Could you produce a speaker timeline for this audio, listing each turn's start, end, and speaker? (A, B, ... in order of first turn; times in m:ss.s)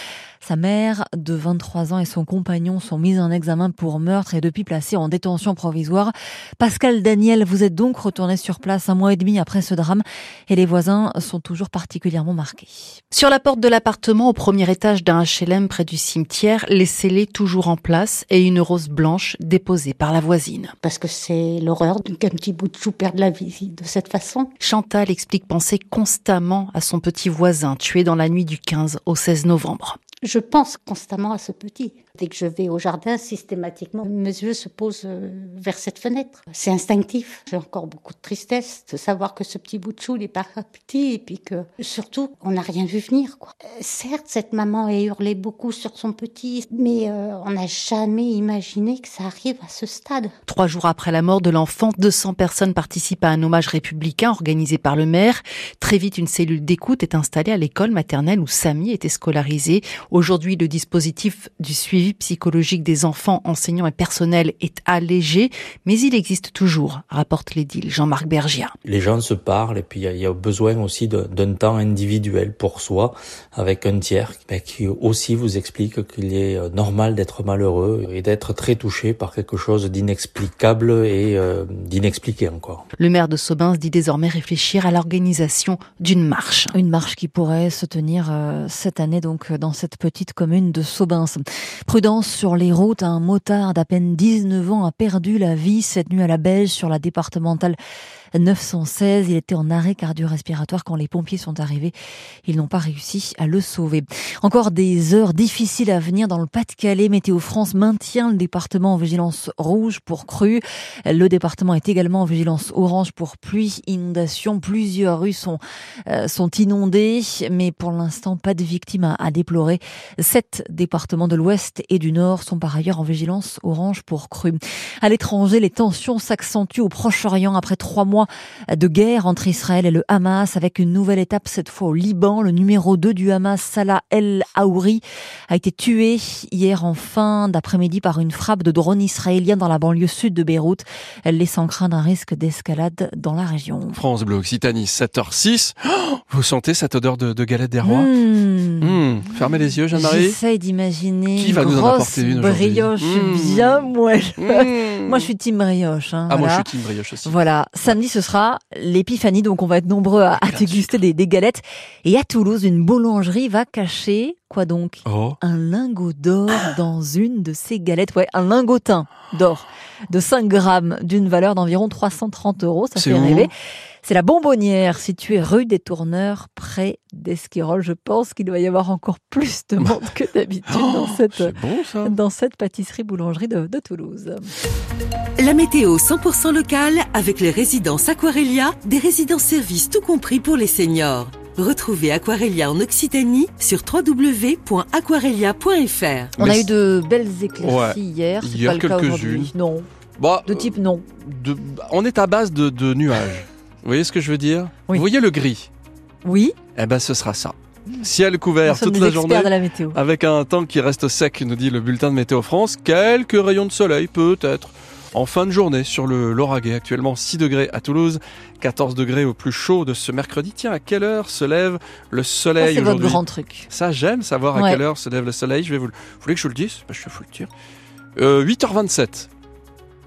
0:00.4-0:13.0 A
0:13.1-0:20.7 B
0:20.8-0:24.5 C
0:24.6-0:30.0 B
0:30.1-0:50.3 C
0:50.5-1:08.7 B
1:08.8-1:22.8 D
1:23.0-1:26.8 B
1:26.7-1:37.8 A
1:38.4-1:41.9 A
1:42.5-2:24.0 A
2:23.9-2:28.1 E
2:27.8-2:29.0 A
2:28.8-2:30.4 E
2:29.9-2:36.7 A
2:31.4-2:35.3 E
2:36.3-2:38.0 E
2:37.2-2:53.5 A
2:40.3-2:41.0 E
2:45.1-2:45.4 E
2:53.0-2:53.5 E
2:54.0-3:04.5 A
3:00.7-3:02.2 E
3:05.4-3:16.4 F
3:16.4-3:19.9 A
3:16.4-3:16.7 E
3:17.6-3:19.5 E
3:20.2-3:25.7 E
3:20.5-3:21.0 A
3:26.2-3:26.5 A
3:26.8-3:47.5 E
3:28.6-3:30.0 A
3:42.6-3:43.7 A
3:44.5-3:44.8 A
3:48.2-3:49.3 E